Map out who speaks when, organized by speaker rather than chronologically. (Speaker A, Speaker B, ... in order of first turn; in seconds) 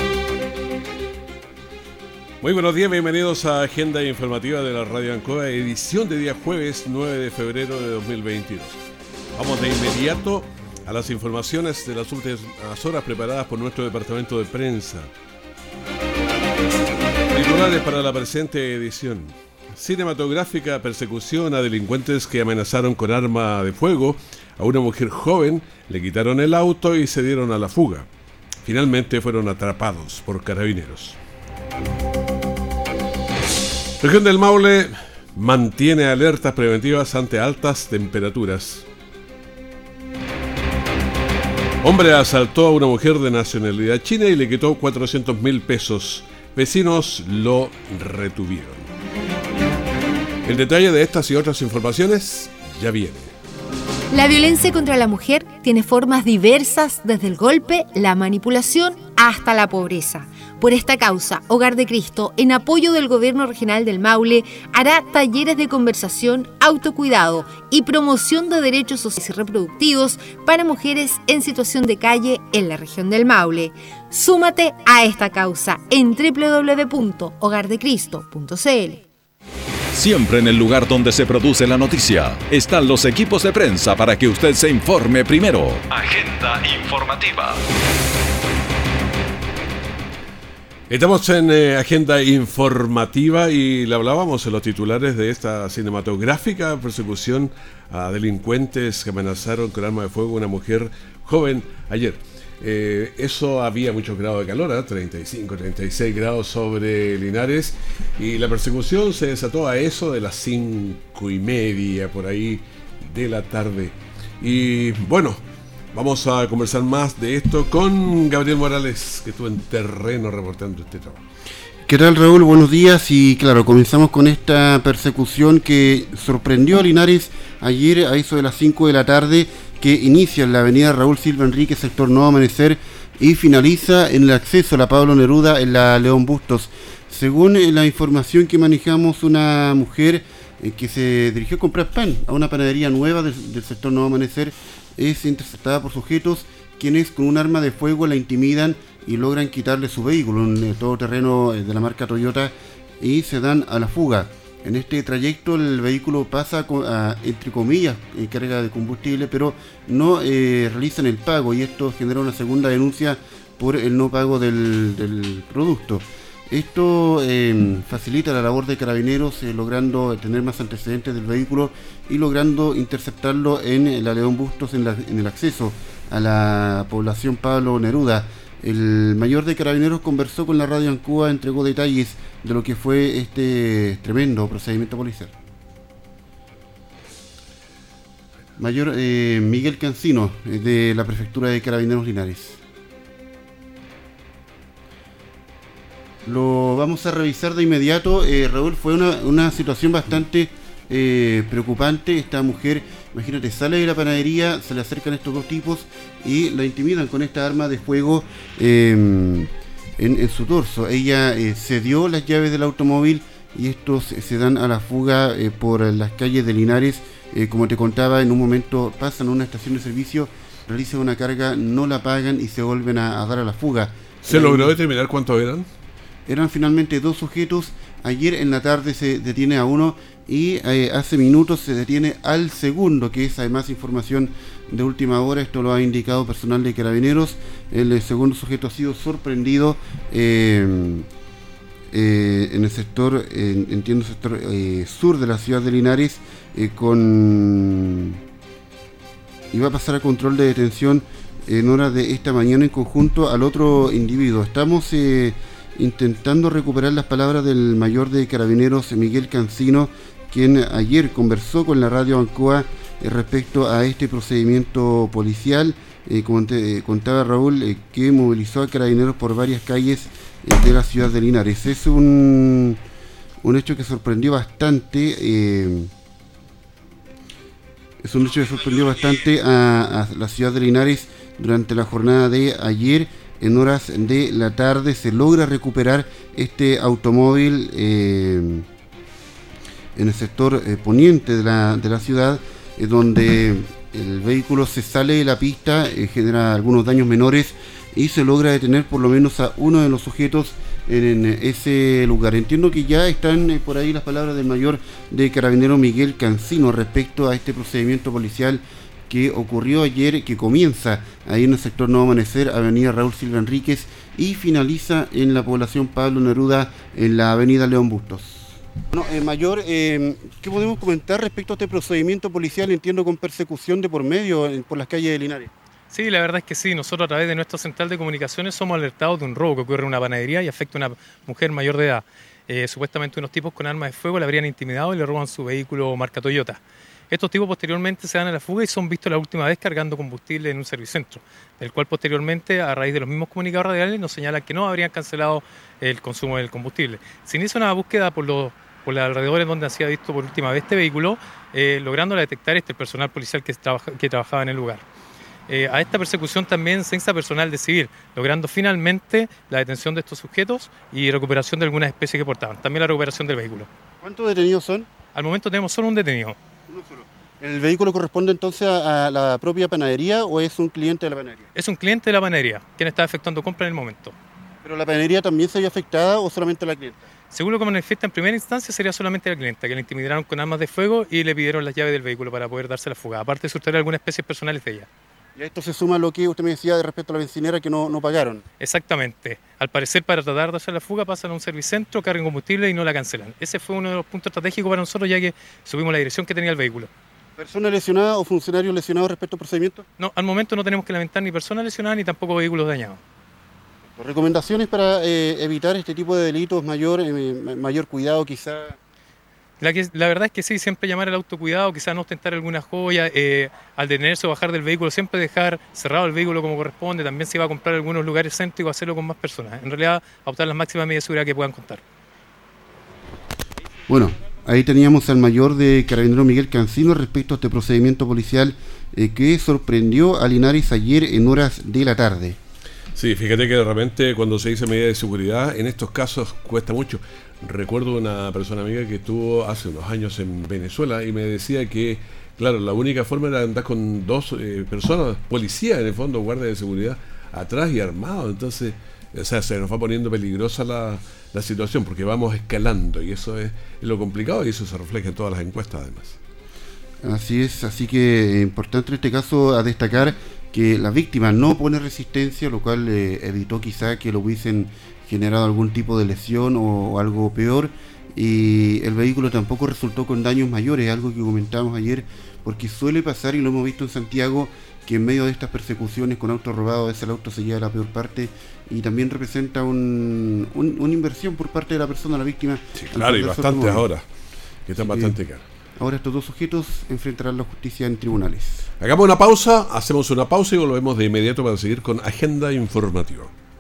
Speaker A: 2.4-8.8, 9.3-15.1, 17.3-28.1, 28.6-31.2, 34.0-38.9, 41.8-48.9, 50.5-53.3, 90.9-115.4, 115.9-121.2, 224.2-225.7, 433.0-456.2, 482.8-484.0, 484.7-485.4, 488.8-493.3
Speaker B: 54.1-79.0
Speaker C: 79.9-87.6
Speaker D: 121.9-185.3, 188.6-192.6, 196.2-224.8, 226.3-241.1, 241.9-248.2, 249.5-272.8, 273.4-275.9, 278.0-288.7, 290.0-325.5, 364.0-364.9, 366.7-371.4, 374.6-377.0, 385.4-388.4, 397.4-399.9, 404.0-408.8, 423.9-432.4, 457.0-483.9, 484.9-485.2, 485.8-488.7
Speaker E: 325.9-336.6, 337.1-354.8, 355.5-363.7, 365.1-366.4, 371.6-374.1, 377.3-384.9, 388.6-396.9, 400.0-403.0, 409.6-421.8